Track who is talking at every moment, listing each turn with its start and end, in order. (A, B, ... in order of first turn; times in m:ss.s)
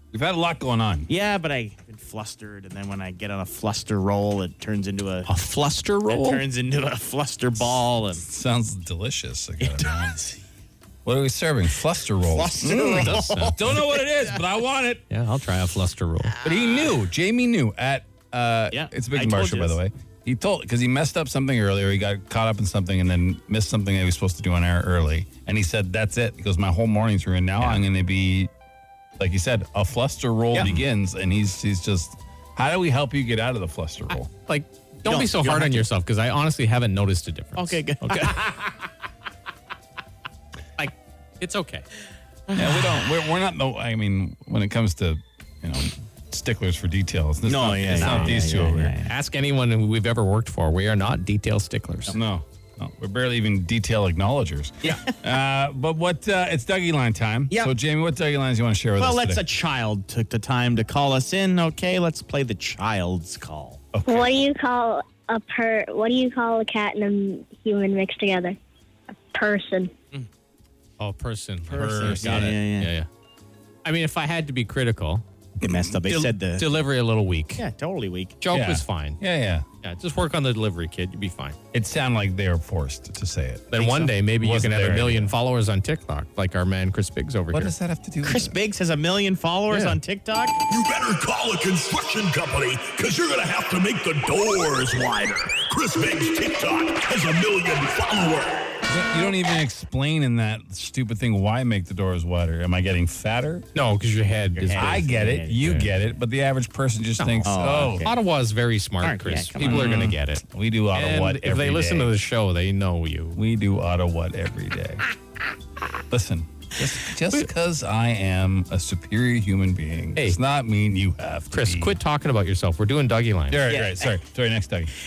0:00.1-0:01.1 A
0:01.1-0:05.3 B
0:05.3-0:06.4 C
0:06.1-0:08.2 B
0:08.2-0:10.2 A
0:09.6-0:10.4 B
0:11.0-0:15.0 A
0:12.2-0:14.2 B
0:13.0-0:13.6 C
0:15.1-0:16.3 C
0:16.3-0:16.9 B
0:16.4-0:28.5 A
0:18.7-0:19.8 B
0:29.2-0:34.3 A
0:34.5-0:38.5 C
0:35.0-0:35.9 B
0:37.6-0:38.7 B
0:40.8-0:41.8 C
0:42.5-0:42.9 B
0:42.6-0:48.9 A
0:47.4-0:49.1 B
0:48.0-0:48.4 C
0:49.0-0:52.1 C
0:52.1-0:59.4 A
0:54.8-0:55.2 B
0:59.0-1:03.9 B
1:03.9-1:04.3 A
1:04.0-1:08.6 D
1:09.3-1:09.9 D
1:11.0-1:13.1 C
1:11.7-1:12.9 B
1:13.8-1:15.2 C
1:15.6-1:16.7 B
1:16.0-1:17.6 C
1:17.6-1:18.4 B
1:18.4-1:19.2 C
1:18.5-1:19.7 A
1:19.8-1:21.6 C
1:21.7-1:25.3 A
1:23.7-1:27.7 C
1:27.5-1:28.6 A
1:28.2-1:30.6 B
1:29.7-1:30.0 C
1:30.7-1:38.8 E
1:38.9-1:43.6 A
1:43.7-1:45.8 C
1:44.6-1:45.8 B
1:44.7-1:48.1 A
1:47.2-1:47.5 C
1:47.4-1:48.2 B
1:48.0-1:53.4 C
1:49.0-1:50.0 B
1:49.6-1:52.1 A
1:53.3-1:55.0 A
1:56.1-2:02.0 A
2:01.5-2:03.6 C
2:03.5-2:04.9 A
2:03.6-2:04.2 B